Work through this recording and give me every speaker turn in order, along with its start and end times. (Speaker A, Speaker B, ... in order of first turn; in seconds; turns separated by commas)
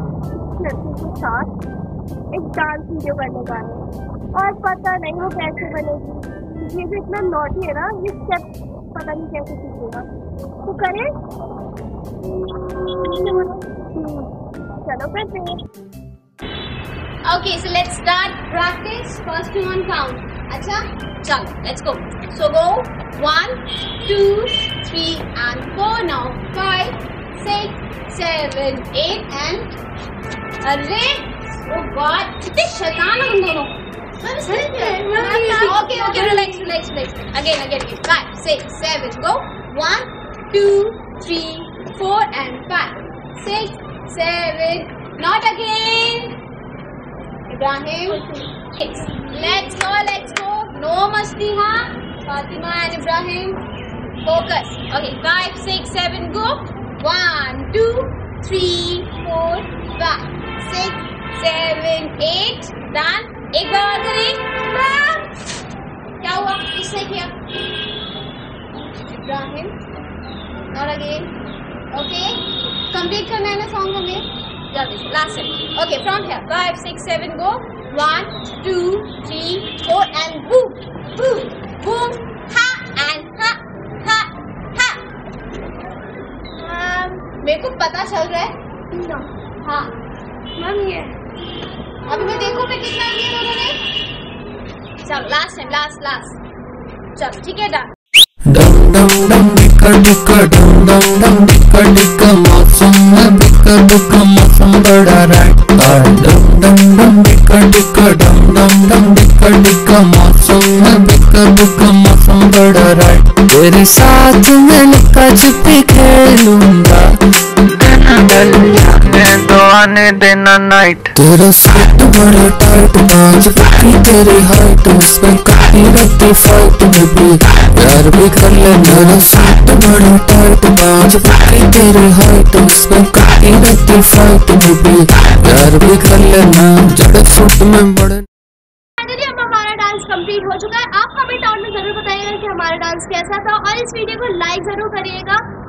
Speaker A: 0.4-1.5, Speaker A: 2.3-3.8, Speaker A: 4.3-10.1, Speaker A: 10.6-11.1, Speaker A: 12.5-15.6, Speaker B: 17.2-29.8, Speaker B: 30.6-46.4, Speaker A: 34.4-36.4, Speaker B: 47.5-53.6, Speaker A: 48.2-48.5, Speaker B: 54.2-65.4, Speaker B: 66.2-67.4, Speaker B: 69.0-69.8, Speaker B: 70.7-71.3, Speaker B: 71.9-85.0, Speaker B: 86.6-88.5, Speaker A: 88.9-89.2, Speaker B: 89.6-89.9, Speaker A: 90.6-91.1, Speaker B: 92.1-93.8, Speaker B: 95.0-96.4, Speaker B: 97.2-97.9, Speaker C: 98.5-117.1, Speaker C: 117.8-119.1, Speaker D: 118.0-121.1, Speaker C: 121.1-138.2, Speaker B: 139.0-141.1, Speaker A: 139.9-145.2, Speaker B: 143.7-144.1